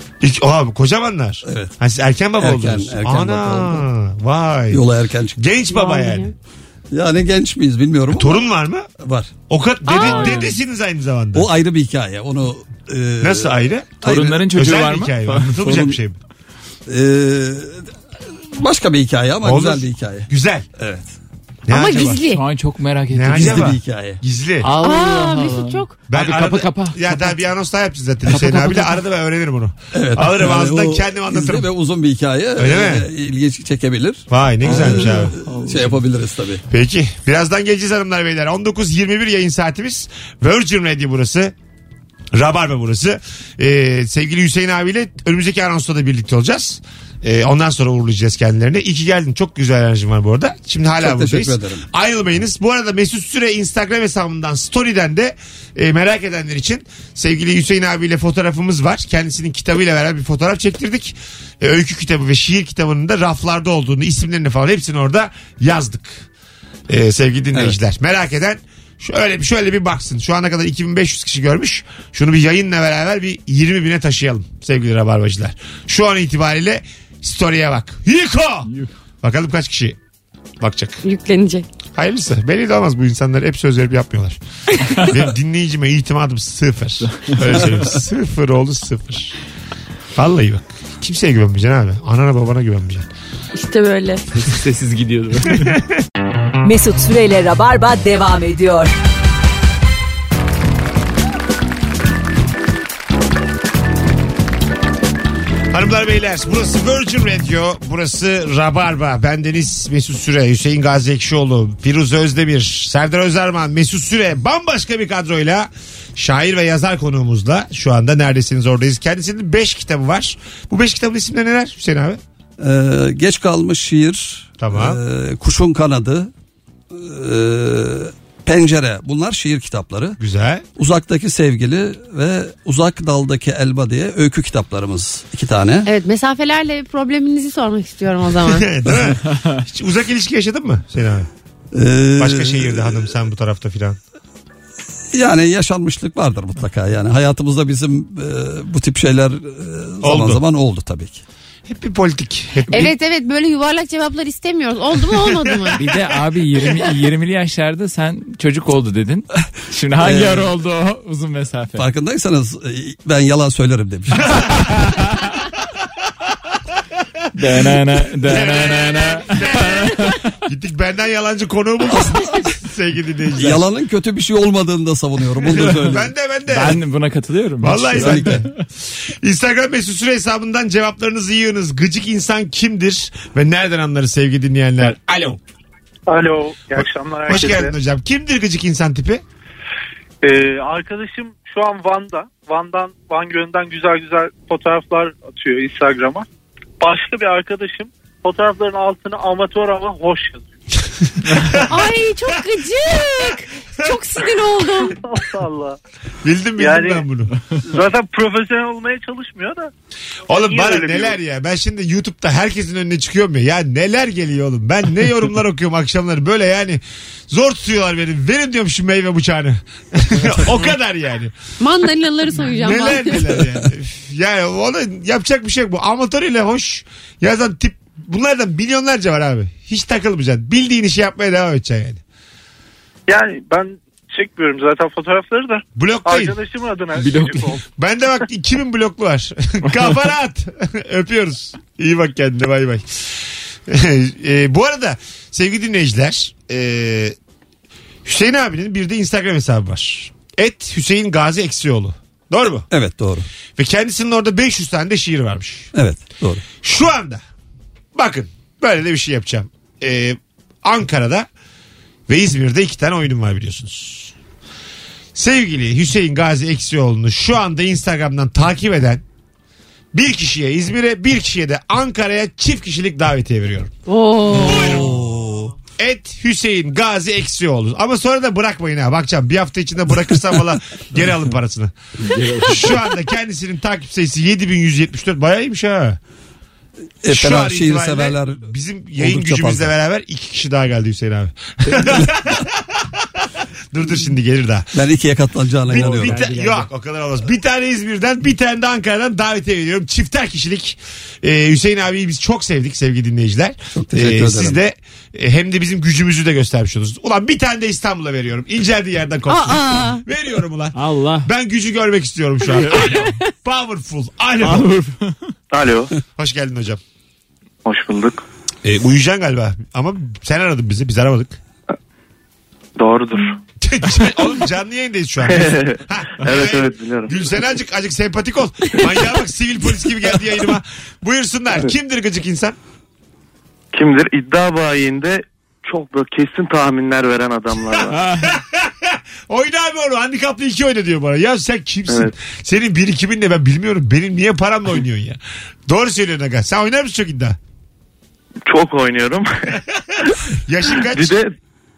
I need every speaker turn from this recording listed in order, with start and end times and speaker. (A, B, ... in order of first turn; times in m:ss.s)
0:00.2-0:04.8 A
0:01.4-0:01.7 B
0:02.4-0:03.8 B
0:04.7-0:05.4 B
0:05.4-0:06.3 A
0:05.7-0:06.3 C
0:06.9-0:08.4 B
0:08.1-0:08.9 A
0:09.0-0:09.3 B
0:09.5-0:11.5 A
0:09.8-0:10.5 C
0:10.0-0:10.6 D
0:11.3-0:13.5 B
0:13.2-0:16.2 A
0:14.0-0:14.4 B
0:14.0-0:16.0 D
0:16.9-0:17.9 B
0:18.5-0:21.1 B
0:19.4-0:20.6 A
0:21.7-0:22.2 A
0:21.7-0:22.4 C
0:22.3-0:23.7 D
0:23.1-0:24.7 A
0:23.3-0:24.2 B
0:24.6-0:27.1 D
0:24.8-0:25.9 C
0:26.1-0:31.7 A
0:28.3-0:29.0 D
0:29.9-0:36.6 B
0:32.6-0:33.1 A
0:34.3-0:35.3 A
0:34.6-0:36.0 D
0:36.7-0:41.5 A
0:42.3-1:06.3 A
0:51.0-0:51.8 B
1:06.9-1:20.0 A
1:20.6-1:21.0 A
1:21.0-1:21.6 C
1:21.9-1:24.4 A
1:24.9-1:29.4 A
1:27.0-1:27.7 D
1:27.5-1:28.0 B
1:30.1-1:33.0 A
1:33.5-1:34.2 C
1:34.3-1:35.8 D
1:35.5-1:36.0 A
1:36.6-1:38.9 E
1:45.7-2:02.2 A
2:02.6-2:06.3 B
2:04.6-2:05.0 A
2:06.9-2:10.2 B
2:10.2-2:10.6 A
2:10.8-2:15.9 B
2:15.8-2:18.7 C
2:18.4-2:21.3 A
2:21.7-2:23.1 B
2:22.2-2:24.0 A
2:25.1-2:31.2 B
2:30.0-2:30.4 A
2:31.7-2:32.9 A
2:32.7-2:35.8 C
2:35.2-2:35.8 A
2:35.8-2:41.9 D
2:40.0-2:40.5 B
2:41.8-2:44.5 B
2:44.3-2:44.7 A
2:44.8-2:45.1 D
2:47.2-2:47.6 A
2:47.3-2:50.3 D
2:48.2-2:53.6 A
2:51.9-2:52.2 B
2:53.4-2:56.1 B
2:55.6-2:56.8 A
2:56.5-2:58.6 D
2:57.6-3:05.4 A
2:57.9-2:58.4 B
3:06.1-3:07.8 F
3:07.3-3:09.2 A
3:10.2-3:16.2 F
3:16.8-3:20.4 F
3:21.3-3:21.6 D
3:21.3-3:21.7 A
3:21.6-3:25.0 C
3:25.3-3:25.8 F
3:26.2-3:27.3 A
3:26.6-3:27.0 F
3:27.6-3:29.7 F
3:30.3-3:41.3 A
3:30.3-3:31.2 F
3:41.6-3:43.2 C
3:42.5-3:52.0 A
3:53.1-3:57.6 F
3:55.8-3:56.4 A
3:57.0-3:57.5 D
3:57.8-4:07.2 A
4:08.0-4:12.7 A
4:12.7-4:13.3 B
4:13.6-4:15.7 A
4:15.7-4:16.4 B
4:16.5-4:17.2 A
4:18.0-4:21.3 A
4:22.1-4:24.1 A
4:25.1-4:29.0 A
4:29.9-4:33.7 A
4:33.9-4:34.8 C
4:34.3-4:35.5 B
4:34.4-4:35.0 A
4:35.8-4:41.7 A
4:42.0-4:42.8 D
4:42.4-4:46.0 A
4:47.0-4:48.5 B
4:47.1-4:54.7 A
4:49.0-4:49.7 B
4:54.8-4:56.2 B
4:55.6-5:14.7 A
4:55.7-4:56.7 D
5:03.8-5:04.6 B
5:09.3-5:10.0 C
5:10.8-5:11.3 D
5:12.5-5:12.9 D
5:14.4-5:15.2 D
5:15.5-5:15.9 G
5:16.2-5:16.8 A
5:17.6-5:18.2 G
5:18.6-5:21.4 A
5:22.8-5:23.4 G
5:23.6-5:32.6 A
5:25.3-5:27.2 G
5:33.7-5:38.0 G
5:37.9-5:38.3 D
5:37.9-5:47.4 A
5:48.5-5:49.6 G
5:50.4-5:51.2 A
5:50.7-5:51.3 G